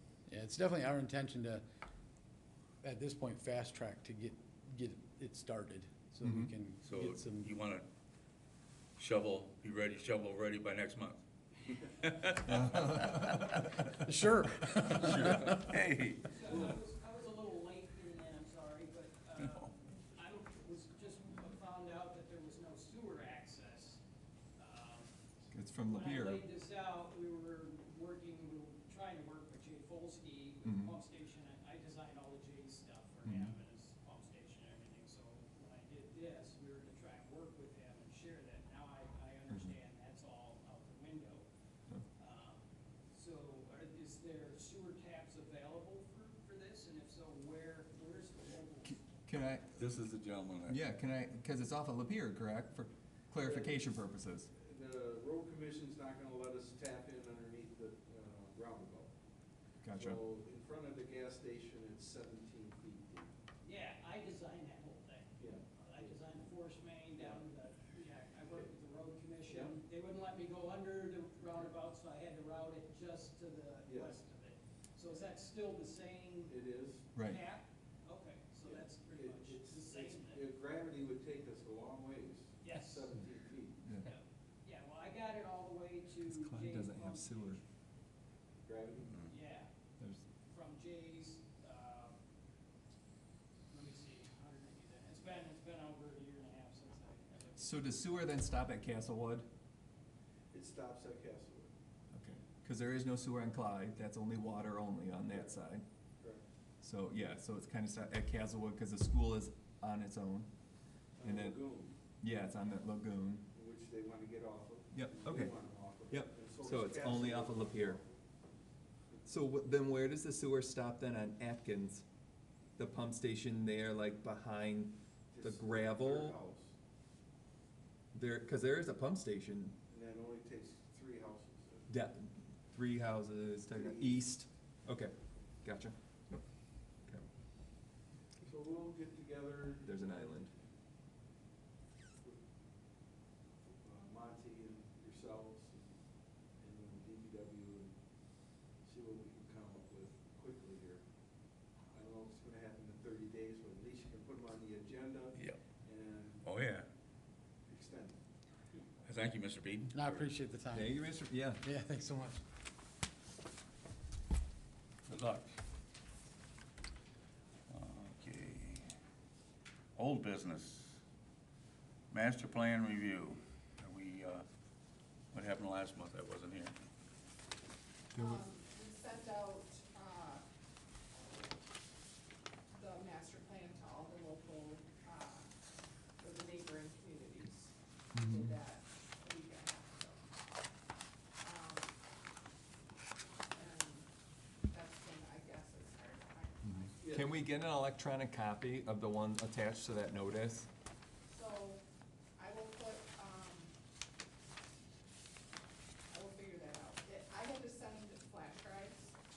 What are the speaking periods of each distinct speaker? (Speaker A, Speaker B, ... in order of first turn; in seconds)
Speaker A: 0.3-1.6, 2.8-7.5, 14.1-15.6, 159.9-161.0, 161.6-162.4
Speaker B: 6.2-6.5, 12.5-13.4, 25.5-26.4, 30.6-30.9, 33.2-33.5, 39.5-39.7, 48.9-49.7, 50.7-54.5, 59.8-60.2, 77.1-77.4, 86.2-87.6, 97.6-99.5, 102.1-105.8, 106.8-110.5, 111.2-111.6, 112.2-113.5, 114.9-118.0, 119.3-122.0, 122.8-126.4, 128.1-129.8, 131.9-136.4, 139.8-140.5, 160.7-161.6, 178.1-178.4, 188.1-188.5, 196.6-200.7
Speaker C: 6.8-7.9, 9.0-11.2, 11.8-13.3, 15.0-16.6, 49.8-50.8, 156.4-156.8, 159.0-160.3, 165.1-165.5, 167.7-168.8, 169.9-171.0, 172.1-174.4, 175.3-176.7
Speaker D: 16.3-24.0, 24.6-25.1, 25.9-41.4, 42.2-49.0, 63.6-76.5, 77.2-80.4, 82.6-83.1, 84.0-87.6, 89.3-89.7, 90.5-92.2, 93.7-97.9
Speaker E: 53.4-54.0, 54.5-59.1, 60.0-63.3, 65.4-66.2, 67.2-67.4, 69.5-69.7, 73.8-74.2, 76.5-77.1, 78.6-83.8, 88.6-89.2, 100.5-101.7, 105.3-105.5, 111.2-111.9, 113.5-118.2, 125.3-126.7, 129.9-131.9, 133.7-134.2, 138.4-140.0, 143.7-145.9, 146.6-147.9, 148.8-151.0, 151.9-156.4, 157.7-158.2, 197.0-197.4
Speaker F: 178.1-180.4, 182.7-185.5, 186.2-190.2, 191.4-191.9, 193.5-194.1, 194.7-197.2, 201.3-201.8, 202.3-203.7, 206.1-209.2